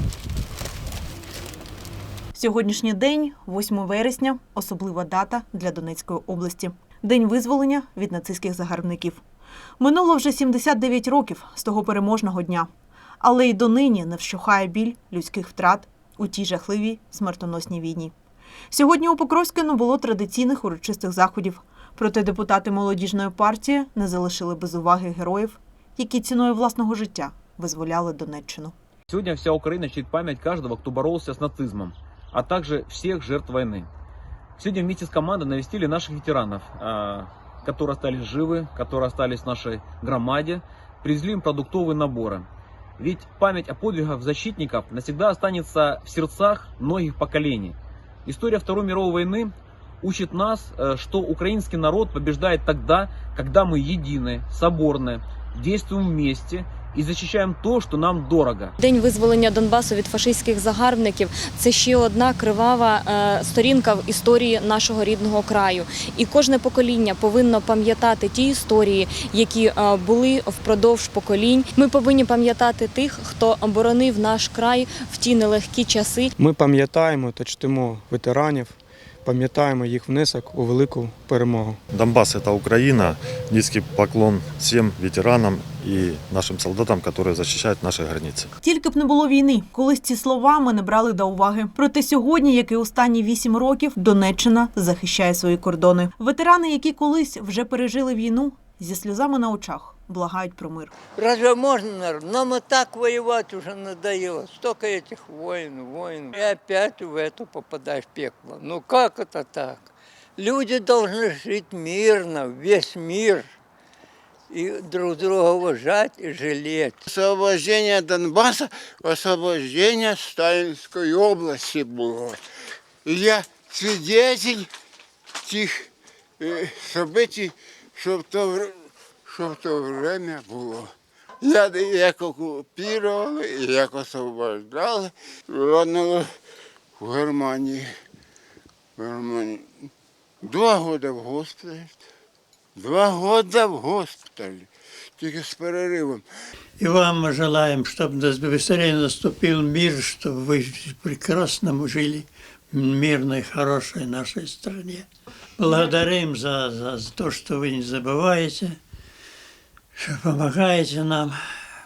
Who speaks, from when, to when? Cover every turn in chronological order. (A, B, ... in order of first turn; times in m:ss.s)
0:02.4-0:09.2 A
0:09.8-0:12.7 A
0:13.2-0:18.1 A
0:18.7-0:28.7 A
0:29.1-0:33.9 B
0:34.6-0:42.5 B
0:43.0-0:58.7 B
0:58.8-1:16.3 C
1:16.4-1:21.8 D
1:21.9-1:28.5 E
1:28.6-1:40.9 A
1:41.1-1:53.5 F
1:54.5-1:57.0 F
1:57.0-2:02.4 G
2:03.0-2:04.7 G
2:05.4-2:16.3 G
2:17.0-2:17.9 G
2:19.0-2:19.9 G
2:20.4-2:22.0 G
2:22.8-2:26.2 G
2:26.8-2:38.8 H
2:40.0-2:41.4 H